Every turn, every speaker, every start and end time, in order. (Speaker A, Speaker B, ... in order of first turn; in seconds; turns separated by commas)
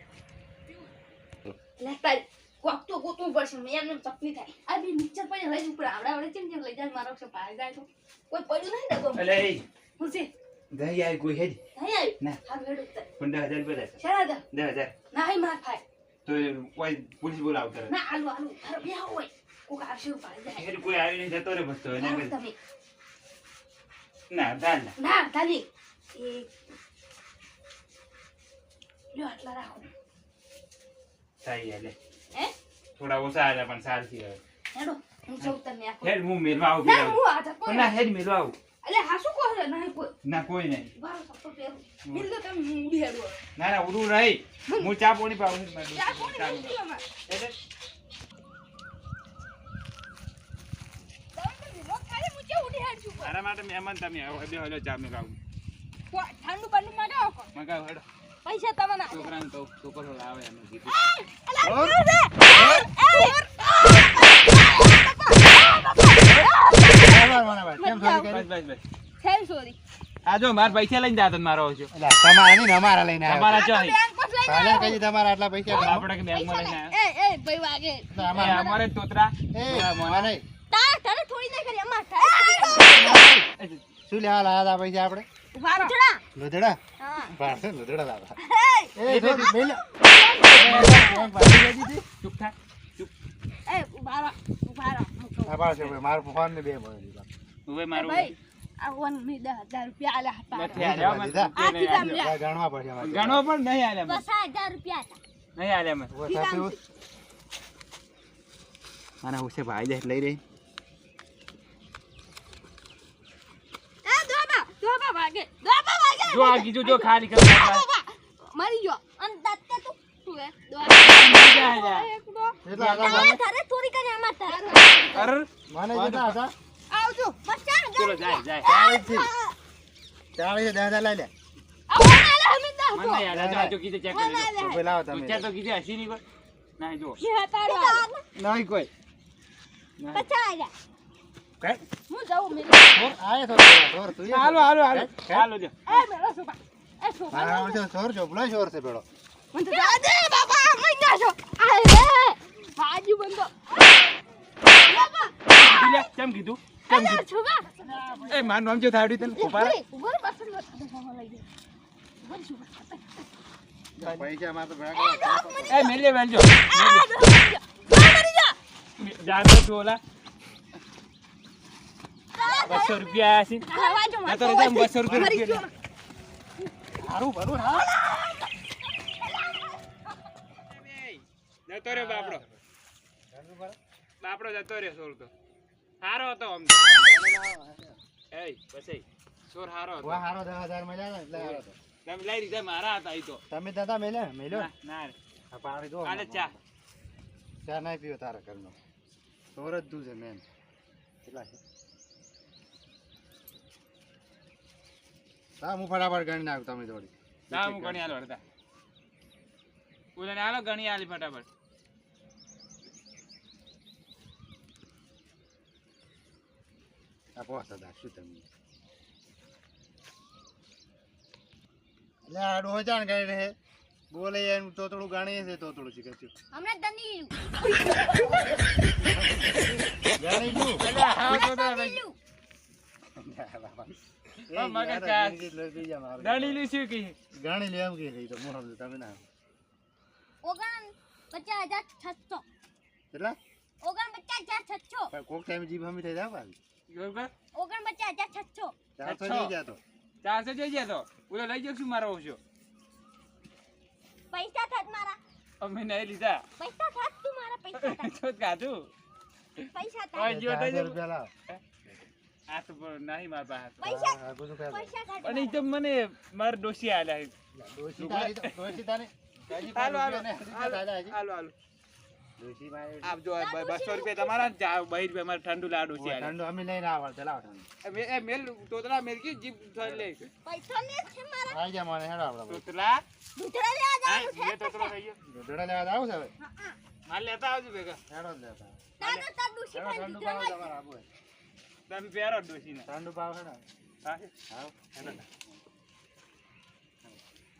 Speaker A: 1.8-9.3, Speaker B: 9.1-9.6, Speaker A: 10.0-10.3, Speaker B: 10.7-11.6, Speaker A: 11.8-13.1, Speaker B: 13.2-14.0, Speaker A: 14.0-14.4, Speaker B: 14.5-14.9, Speaker A: 15.1-15.8, Speaker B: 16.2-17.9, Speaker A: 17.9-20.7, Speaker B: 20.5-22.3, Speaker A: 21.9-22.5, Speaker B: 24.3-24.9, Speaker A: 25.0-26.5, Speaker A: 29.1-29.9, Speaker B: 31.4-31.9, Speaker B: 33.0-34.4, Speaker A: 34.7-36.1, Speaker B: 35.4-38.5, Speaker A: 36.8-37.9, Speaker A: 38.8-40.1, Speaker B: 40.2-40.9, Speaker A: 41.0-43.4, Speaker B: 43.5-46.8, Speaker A: 44.6-44.9, Speaker A: 45.9-47.0, Speaker B: 47.3-47.5, Speaker A: 51.3-53.3, Speaker B: 53.2-55.4, Speaker A: 56.1-57.5, Speaker B: 57.5-58.0, Speaker A: 58.4-59.3, Speaker B: 59.1-60.9, Speaker A: 60.9-68.3, Speaker C: 61.6-62.0, Speaker B: 62.5-62.9, Speaker C: 67.0-68.5, Speaker B: 68.3-68.8, Speaker A: 69.2-69.8, Speaker B: 70.2-71.9, Speaker C: 71.9-73.6, Speaker B: 73.2-74.0, Speaker A: 73.5-75.0, Speaker C: 74.4-76.1, Speaker B: 75.7-76.9, Speaker A: 76.3-78.7, Speaker C: 78.1-78.8, Speaker B: 78.3-80.3, Speaker C: 79.5-80.4, Speaker D: 80.7-83.2, Speaker A: 82.2-83.1, Speaker C: 82.7-83.5, Speaker C: 84.0-85.2, Speaker A: 85.5-85.9, Speaker D: 85.8-86.2, Speaker C: 86.3-86.8, Speaker D: 87.0-87.3, Speaker C: 87.3-88.3, Speaker A: 88.4-88.9, Speaker C: 88.9-89.9, Speaker B: 89.0-89.5, Speaker A: 89.9-91.3, Speaker C: 90.5-92.0, Speaker B: 90.6-91.0, Speaker B: 92.2-93.1, Speaker A: 93.7-95.6, Speaker C: 95.5-97.3, Speaker B: 97.7-98.3, Speaker A: 97.9-100.9, Speaker B: 100.5-102.2, Speaker C: 100.7-103.5, Speaker A: 101.5-102.3, Speaker B: 103.0-104.2, Speaker D: 104.0-105.2, Speaker B: 105.5-106.1, Speaker C: 106.1-106.8, Speaker A: 106.2-106.8, Speaker B: 109.2-110.4, Speaker A: 114.0-119.0, Speaker B: 116.3-117.8, Speaker D: 119.2-120.0, Speaker A: 120.2-122.6, Speaker B: 121.0-122.1, Speaker C: 122.6-123.4, Speaker B: 122.7-123.3, Speaker D: 123.0-124.6, Speaker A: 124.4-125.3, Speaker B: 125.1-126.4, Speaker C: 125.7-126.5, Speaker A: 126.9-127.4, Speaker D: 127.4-129.6, Speaker B: 128.0-128.7, Speaker C: 128.6-129.3, Speaker C: 130.4-131.3, Speaker A: 131.9-133.3, Speaker B: 132.9-136.2, Speaker C: 133.3-133.8, Speaker A: 134.1-134.8, Speaker C: 134.6-135.4, Speaker B: 136.8-137.2, Speaker A: 137.2-138.1, Speaker D: 137.7-138.2, Speaker B: 138.4-138.9, Speaker B: 140.0-140.3, Speaker D: 140.1-140.7, Speaker A: 142.1-143.0, Speaker C: 142.9-145.5, Speaker B: 144.2-146.0, Speaker A: 145.9-147.8, Speaker C: 147.3-149.1, Speaker A: 149.5-154.1, Speaker A: 154.7-156.0, Speaker B: 155.5-157.2, Speaker A: 156.9-158.5, Speaker C: 157.9-158.3, Speaker B: 158.3-159.8, Speaker A: 159.2-161.4, Speaker A: 162.2-163.2, Speaker C: 164.0-165.9, Speaker B: 164.0-164.2, Speaker A: 165.0-165.7, Speaker B: 165.7-167.1, Speaker A: 166.7-168.6, Speaker B: 169.0-170.0, Speaker D: 172.4-173.1, Speaker A: 172.4-172.9, Speaker B: 172.6-175.7, Speaker A: 173.6-175.7, Speaker C: 175.1-175.4, Speaker C: 177.0-178.0, Speaker B: 180.7-182.4, Speaker C: 181.9-182.6, Speaker C: 183.3-183.8, Speaker B: 184.2-185.3, Speaker B: 186.0-186.9, Speaker C: 187.0-188.0, Speaker B: 188.3-190.2, Speaker C: 190.0-191.8, Speaker B: 191.3-193.4, Speaker C: 193.5-194.7, Speaker B: 194.5-195.2, Speaker C: 195.5-196.6, Speaker B: 196.0-196.5, Speaker C: 197.6-198.8, Speaker C: 199.5-200.4, Speaker C: 201.2-201.6, Speaker C: 205.6-208.1, Speaker B: 207.5-208.4, Speaker B: 210.2-211.5, Speaker C: 217.4-218.4, Speaker C: 222.2-223.6, Speaker C: 224.1-226.3, Speaker D: 226.5-227.4, Speaker C: 230.2-230.9, Speaker B: 230.7-232.0, Speaker D: 231.2-232.2, Speaker C: 233.2-234.0, Speaker C: 234.5-236.6, Speaker B: 234.5-235.4, Speaker B: 236.2-237.2, Speaker C: 237.3-239.2, Speaker D: 240.4-242.4, Speaker C: 243.1-243.4, Speaker D: 243.8-245.1, Speaker C: 245.1-246.6, Speaker B: 246.9-247.3, Speaker D: 247.5-248.8, Speaker C: 249.0-249.8, Speaker B: 249.0-249.5, Speaker B: 250.2-252.4, Speaker D: 254.3-255.2, Speaker B: 255.6-256.4, Speaker D: 256.6-258.1, Speaker B: 257.8-258.9, Speaker D: 259.7-260.3, Speaker B: 260.1-261.0, Speaker C: 260.3-261.3, Speaker B: 262.5-263.8, Speaker D: 263.8-265.6, Speaker C: 263.8-264.9, Speaker B: 265.2-267.3, Speaker C: 267.5-271.2, Speaker B: 268.0-268.5, Speaker B: 269.5-271.5, Speaker C: 272.4-273.2, Speaker B: 273.0-276.3, Speaker D: 273.4-274.5, Speaker C: 276.0-277.7, Speaker B: 277.8-280.3, Speaker C: 279.8-280.1, Speaker D: 280.4-281.6, Speaker C: 281.5-282.6, Speaker B: 282.5-283.0, Speaker D: 283.3-284.9, Speaker B: 284.0-285.2, Speaker C: 285.2-286.3, Speaker D: 286.4-286.8, Speaker B: 287.1-288.0, Speaker C: 288.1-288.9, Speaker D: 289.0-290.7, Speaker B: 289.0-289.3, Speaker C: 289.7-291.1, Speaker B: 291.9-292.9, Speaker C: 292.8-293.6, Speaker B: 294.0-294.3, Speaker C: 294.5-295.2